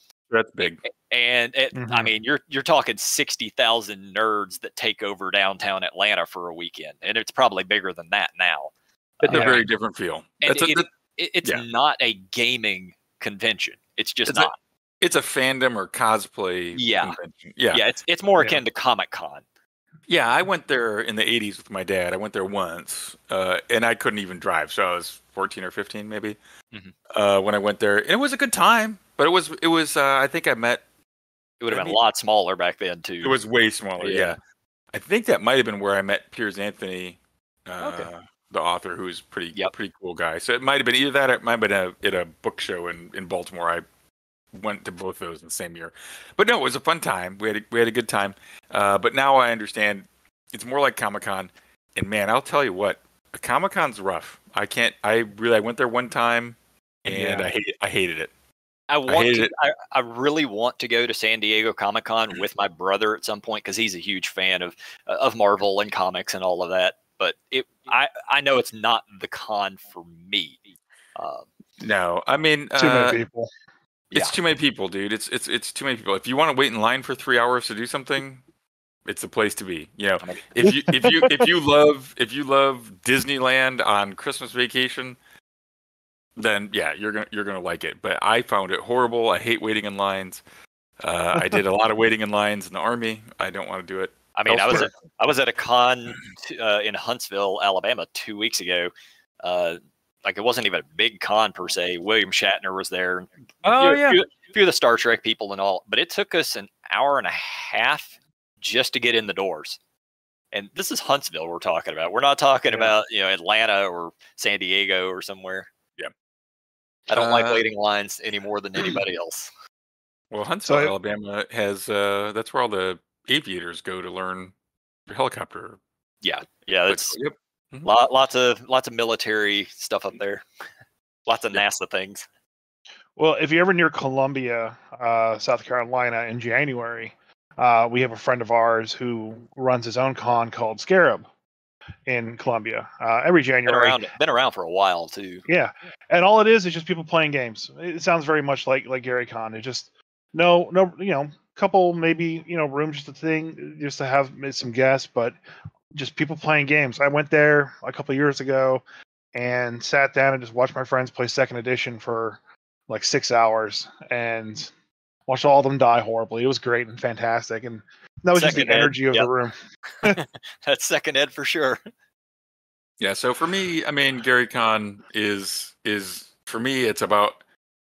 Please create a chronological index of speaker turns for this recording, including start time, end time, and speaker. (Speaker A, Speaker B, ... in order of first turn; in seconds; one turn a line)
Speaker A: 0.3-0.8
Speaker B: 1.1-9.6
Speaker C: 1.7-2.1
Speaker A: 9.2-10.8
Speaker C: 9.3-9.6
Speaker B: 10.4-14.6
Speaker A: 14.2-17.8
Speaker B: 16.8-17.2
Speaker B: 17.7-19.4
Speaker A: 20.1-26.4
Speaker A: 27.1-30.8
Speaker B: 31.6-33.4
Speaker A: 31.7-32.0
Speaker A: 33.2-34.4
Speaker B: 34.0-34.4
Speaker A: 34.9-43.8
Speaker B: 37.8-38.1
Speaker A: 44.5-58.3
Speaker C: 57.1-57.4
Speaker B: 58.9-70.6
Speaker A: 59.1-59.5
Speaker B: 71.2-71.5
Speaker A: 71.8-73.2
Speaker C: 72.8-73.5
Speaker A: 74.1-78.4
Speaker A: 79.0-85.2
Speaker C: 80.6-81.3
Speaker A: 86.4-90.4
Speaker A: 91.0-94.9
Speaker B: 94.3-98.9
Speaker B: 99.4-109.8
Speaker A: 103.6-104.2
Speaker B: 110.5-115.7
Speaker C: 112.7-112.9
Speaker B: 117.1-119.5
Speaker A: 117.1-117.6
Speaker A: 120.3-124.5
Speaker C: 120.6-120.9
Speaker A: 125.1-125.8
Speaker B: 126.2-127.2
Speaker A: 126.9-127.9
Speaker B: 127.8-130.4
Speaker B: 131.3-132.2
Speaker C: 133.2-141.2
Speaker C: 142.1-144.0
Speaker B: 143.7-145.4
Speaker C: 145.5-155.4
Speaker C: 155.9-158.8
Speaker C: 159.3-164.7
Speaker C: 165.3-170.2
Speaker B: 168.3-169.3
Speaker B: 170.0-171.8
Speaker A: 173.0-177.4